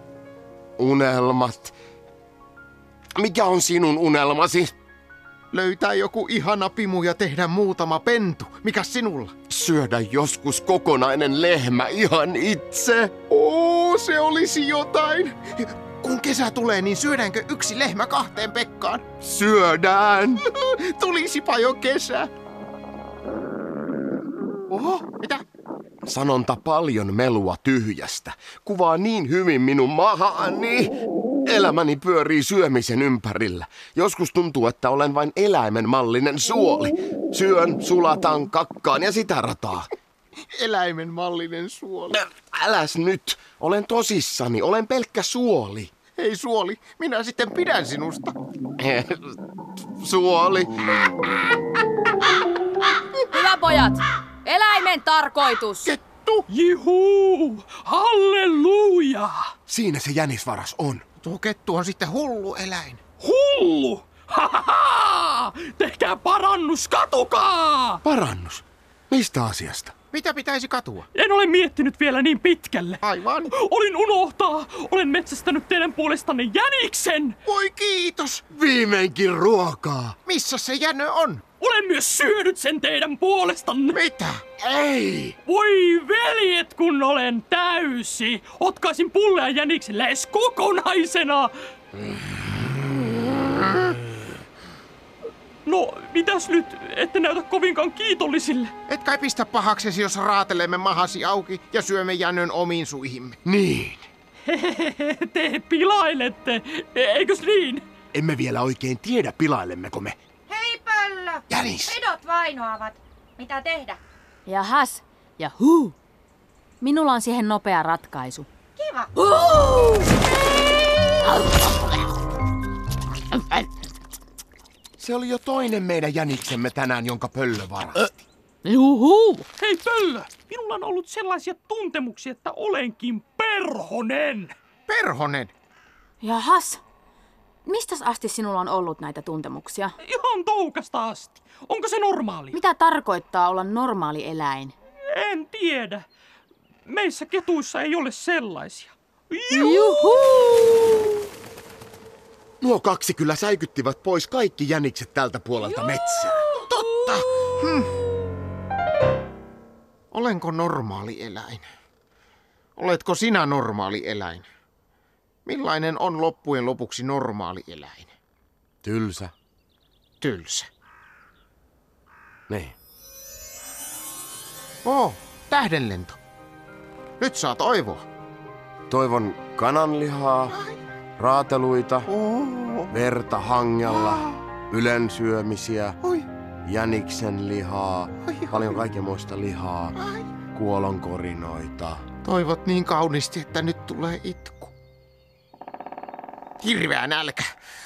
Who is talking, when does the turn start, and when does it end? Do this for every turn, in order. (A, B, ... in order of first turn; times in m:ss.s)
0:00.8-0:01.8 A
0:03.2-0:04.7 A
0:05.5-0:09.3 B
0:09.5-0:13.2 A
0:13.3-0:19.1 B
0:19.2-0:20.4 A
0:20.5-0:22.3 B
0:24.7-0:25.0 A
0:25.1-0:25.4 B
0:26.0-0:31.0 A
0:31.5-0:39.9 A
0:40.6-0:42.2 B
0:42.1-0:45.9 A
0:46.2-0:48.4 B
0:48.8-0:49.4 A
0:50.0-0:51.1 A
0:53.3-0:55.9 C
0:55.8-0:56.5 B
0:56.5-0:59.4 D
0:59.7-1:01.0 A
1:01.2-1:03.0 B
1:03.2-1:08.0 D
1:08.0-1:09.9 A
1:10.1-1:11.1 B
1:11.2-1:17.4 D
1:13.0-1:13.5 B
1:17.4-1:18.5 B
1:18.5-1:20.2 A
1:20.2-1:21.4 B
1:21.6-1:24.0 D
1:23.9-1:24.5 B
1:24.6-1:25.4 A
1:25.5-1:31.5 D
1:35.7-1:38.7 D
1:38.9-1:43.4 B
1:43.4-1:44.1 A
1:44.5-1:47.8 D
1:48.1-1:50.2 A
1:50.5-1:54.0 E
1:51.5-1:52.0 A
1:54.5-1:56.0 C
1:56.8-1:58.5 C
1:58.8-1:59.1 E
1:59.2-2:00.1 C
2:01.2-2:01.7 C
2:05.0-2:08.1 A
2:08.6-2:09.5 C
2:09.6-2:14.5 D
2:14.9-2:15.5 B
2:16.2-2:16.8 C
2:17.6-2:20.0 C
2:20.0-2:22.6 D
2:22.5-2:24.7 C
2:25.1-2:26.0 D
2:26.9-2:30.2 D
2:29.5-2:31.2 C
2:32.6-2:36.5 A
2:36.5-2:38.1 B
2:40.1-2:41.7 B
2:42.8-2:44.5 B
2:45.5-2:48.1 B
2:48.8-2:49.3 A
2:50.2-2:50.7 B
2:52.5-2:52.8 A
2:54.8-2:56.2 B
2:57.2-2:58.0 B
2:58.9-3:00.6 A
3:00.5-3:00.8 B
3:01.2-3:02.1 A
3:02.1-3:02.9 B
3:02.9-3:06.0 A
3:03.9-3:04.4 B
3:06.7-3:10.0 A
3:08.3-3:08.6 B
3:10.0-3:10.3 B
3:10.5-3:12.0 A
3:12.2-3:14.7 B
3:16.6-3:17.5 B